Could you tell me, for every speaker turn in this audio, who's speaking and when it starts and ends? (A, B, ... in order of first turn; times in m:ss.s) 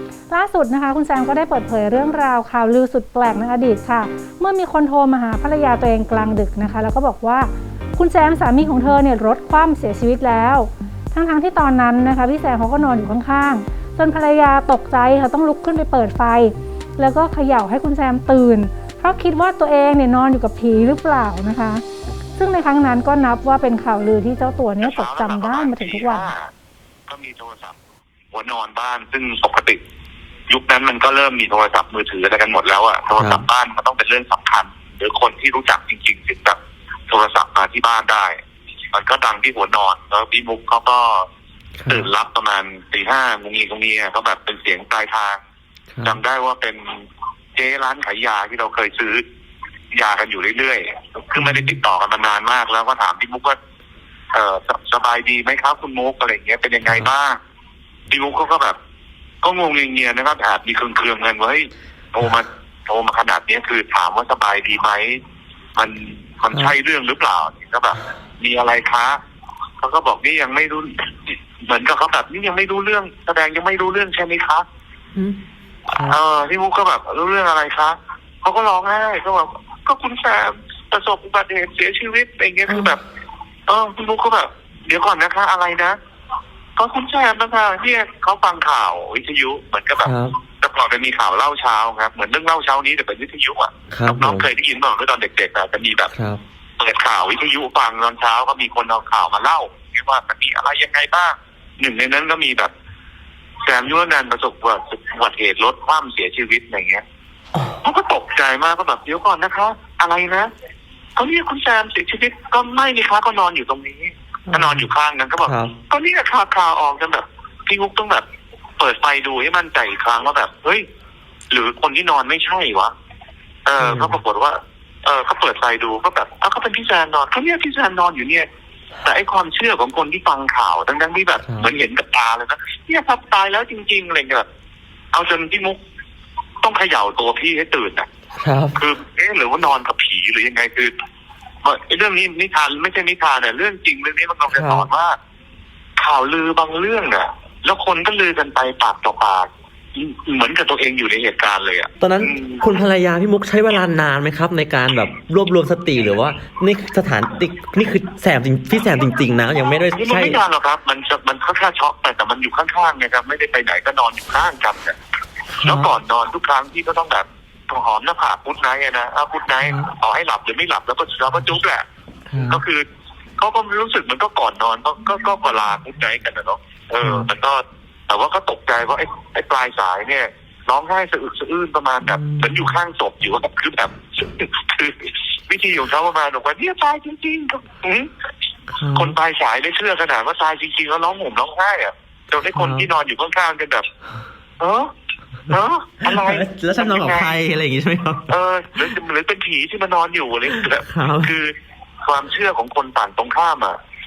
0:00.3-0:21.8 A
0:22.4-0:26.3 A
0:24.8-0:26.5 B
0:27.1-0:27.8 B
0:28.3-0:29.8 B
0:30.5-0:36.6 B
0:33.2-0:33.4 C
0:37.1-0:38.4 B
0:38.9-0:41.3 B
0:41.8-0:42.1 C
0:41.9-0:45.4 B
0:45.9-0:46.2 C
0:46.0-0:49.2 B
0:49.9-0:53.6 B
0:51.4-0:51.8 C
0:54.3-0:57.4 B
0:56.8-0:57.1 C
0:58.1-0:58.8 B
0:59.4-1:05.2 B
1:05.8-1:09.2 B
1:06.5-1:06.8 C
1:09.8-1:14.6 B
1:15.9-1:16.2 C
1:16.1-1:23.0 B
1:22.7-1:23.0 C
1:23.7-1:26.0 B
1:26.8-1:36.1 B
1:30.0-1:30.4 C
1:33.9-1:34.5 C
1:36.1-1:36.4 C
1:36.8-1:42.7 B
1:43.7-1:47.0 B
1:47.6-1:47.8 C
1:47.8-1:50.5 B
1:51.2-1:58.2 B
1:54.5-1:54.9 C
1:55.4-1:55.7 C
1:58.8-2:00.9 B
2:01.5-2:02.9 B
2:03.7-2:08.5 B
2:03.8-2:04.2 C
2:09.0-2:14.5 B
2:11.4-2:11.7 C
2:15.1-2:15.8 B
2:16.6-2:18.1 B
2:18.4-2:18.8 C
2:18.8-2:20.9 B
2:21.6-2:25.2 B
2:24.5-2:24.9 C
2:26.0-2:32.7 B
2:32.0-2:40.4 C
2:39.9-2:45.0 B
2:45.5-2:45.9 C
2:45.6-2:51.9 B
2:49.6-2:49.9 C
2:52.3-2:52.6 C
2:52.5-2:52.8 B
2:53.4-3:08.1 B
2:57.0-2:57.3 C
3:02.0-3:02.7 C
3:08.7-3:09.2 C
3:09.0-3:13.9 B
3:12.4-3:12.9 C
3:14.6-3:14.9 B
3:15.5-3:17.4 B
3:16.0-3:18.9 C
3:18.3-3:23.8 B
3:20.5-3:21.4 C